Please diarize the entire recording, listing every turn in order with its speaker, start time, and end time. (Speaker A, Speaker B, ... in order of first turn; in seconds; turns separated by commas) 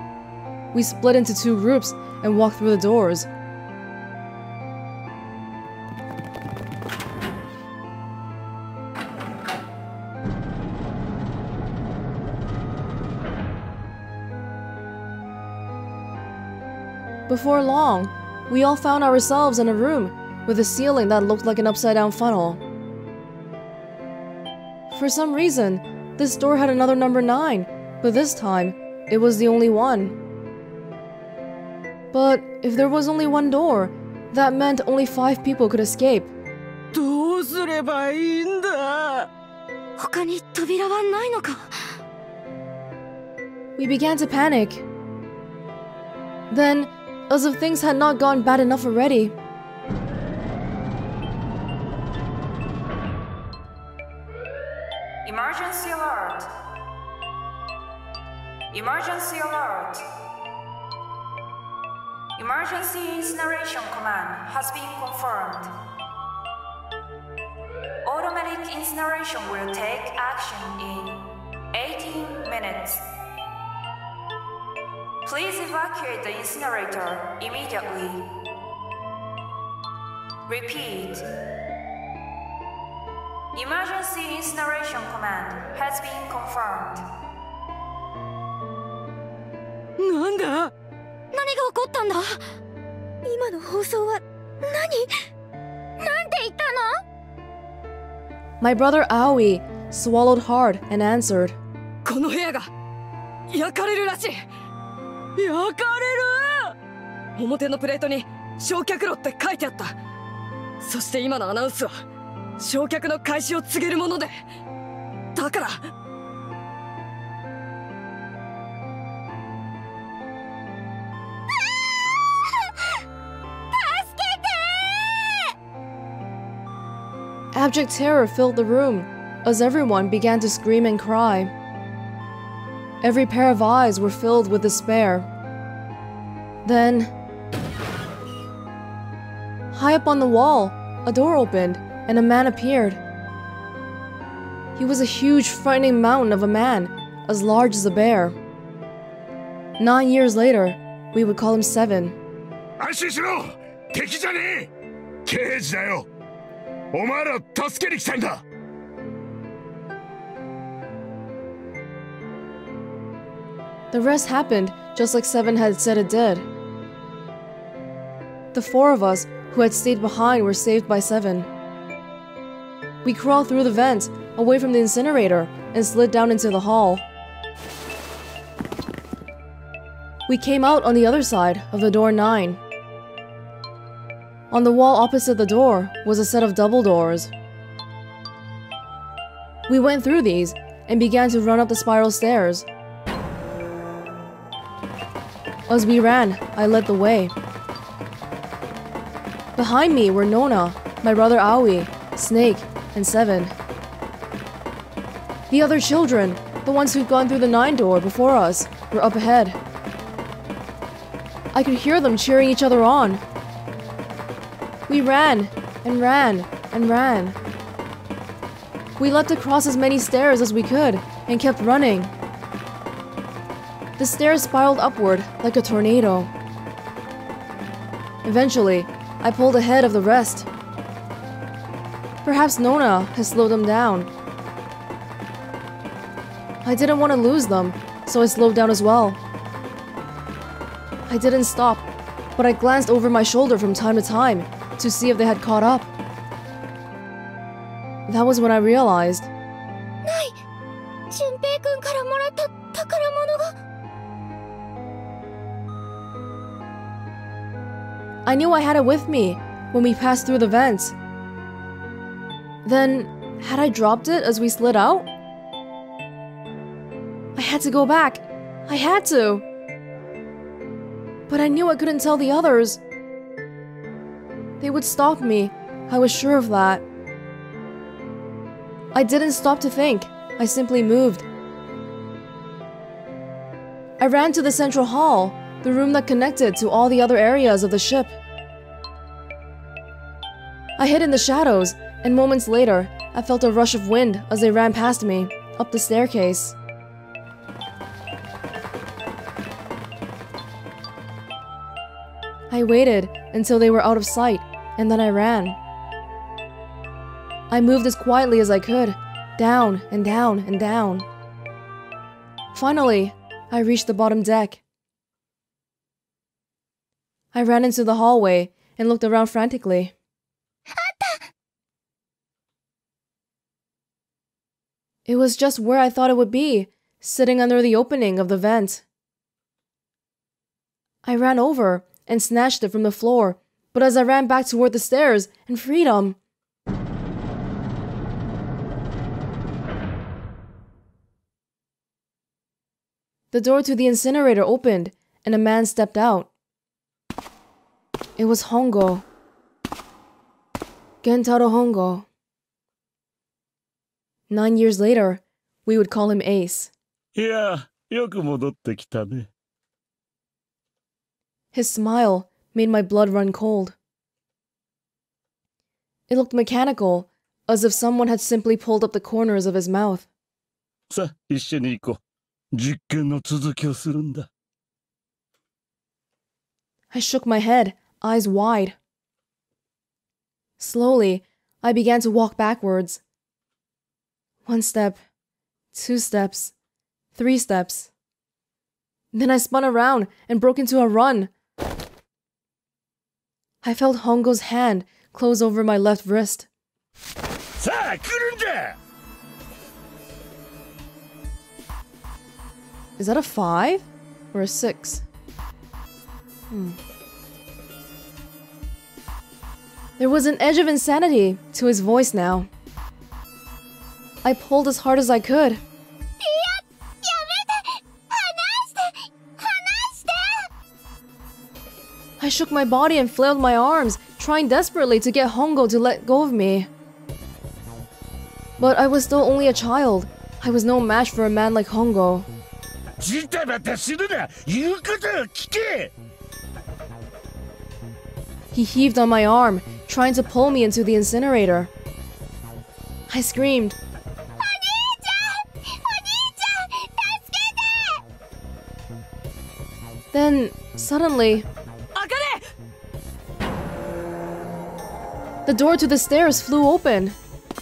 Speaker A: 0.7-3.3, Speaker A: 17.3-22.6, Speaker A: 24.9-30.1, Speaker A: 32.1-36.3, Speaker B: 36.9-39.3, Speaker C: 40.0-41.6, Speaker A: 43.8-44.8, Speaker A: 46.5-49.3, Speaker D: 55.2-56.5, Speaker D: 58.7-60.0, Speaker D: 62.4-65.7, Speaker D: 68.0-73.0, Speaker D: 75.2-78.3, Speaker D: 80.5-81.2, Speaker D: 83.5-87.0, Speaker B: 90.0-90.7, Speaker C: 91.3-92.4, Speaker C: 93.2-95.1, Speaker C: 96.0-97.0, Speaker A: 98.6-101.6, Speaker B: 102.0-102.7, Speaker B: 103.5-104.4, Speaker B: 105.3-106.7, Speaker B: 107.3-109.9, Speaker B: 110.8-112.0, Speaker B: 112.6-114.3, Speaker B: 115.3-115.8, Speaker C: 121.6-122.6, Speaker C: 123.7-125.4, Speaker A: 127.5-131.5, Speaker A: 133.0-135.3, Speaker A: 136.6-137.1, Speaker A: 139.7-143.0, Speaker A: 144.8-148.3, Speaker A: 149.8-152.2, Speaker E: 152.8-154.7, Speaker E: 155.2-156.1, Speaker E: 156.9-158.4, Speaker A: 163.9-166.5, Speaker A: 168.5-171.5, Speaker A: 173.0-177.0, Speaker A: 180.3-182.6, Speaker A: 184.5-187.3, Speaker A: 189.7-192.7, Speaker A: 195.7-197.3, Speaker A: 199.6-203.5, Speaker A: 205.5-209.6, Speaker A: 211.5-213.2, Speaker A: 214.9-217.4, Speaker A: 219.0-222.1, Speaker A: 224.0-226.3, Speaker A: 228.2-230.5, Speaker A: 232.2-234.1, Speaker A: 236.6-239.2, Speaker A: 241.1-245.9, Speaker A: 248.1-249.3, Speaker C: 250.0-250.4, Speaker C: 251.1-253.5, Speaker A: 258.2-260.9, Speaker A: 262.6-265.1, Speaker A: 267.3-269.4, Speaker A: 271.3-272.8, Speaker A: 274.6-276.8, Speaker A: 278.9-281.2, Speaker A: 284.0-288.1, Speaker A: 290.8-296.5, Speaker A: 302.5-305.6, Speaker A: 307.5-311.1, Speaker A: 312.5-314.6, Speaker A: 317.3-319.9, Speaker C: 320.7-321.2, Speaker A: 325.1-328.8, Speaker A: 331.0-336.2, Speaker A: 343.3-346.3, Speaker A: 348.2-349.0, Speaker A: 351.0-352.1, Speaker A: 354.3-356.7, Speaker F: 357.1-359.3, Speaker A: 361.5-363.8, Speaker A: 366.1-370.1, Speaker F: 370.9-372.0, Speaker F: 372.5-374.3, Speaker A: 376.9-378.8, Speaker A: 380.6-383.0, Speaker A: 384.4-385.0, Speaker A: 385.7-386.5, Speaker A: 387.1-387.9, Speaker A: 389.1-391.3, Speaker A: 393.6-396.5, Speaker F: 397.6-398.8, Speaker A: 403.0-405.0, Speaker A: 406.5-406.8, Speaker A: 410.0-412.5, Speaker A: 414.2-415.6, Speaker C: 416.2-420.5, Speaker A: 422.2-426.7, Speaker A: 428.6-432.3, Speaker F: 433.0-435.9, Speaker A: 438.5-441.7, Speaker A: 443.1-443.8, Speaker C: 444.4-448.0, Speaker A: 450.1-451.5, Speaker A: 455.4-457.1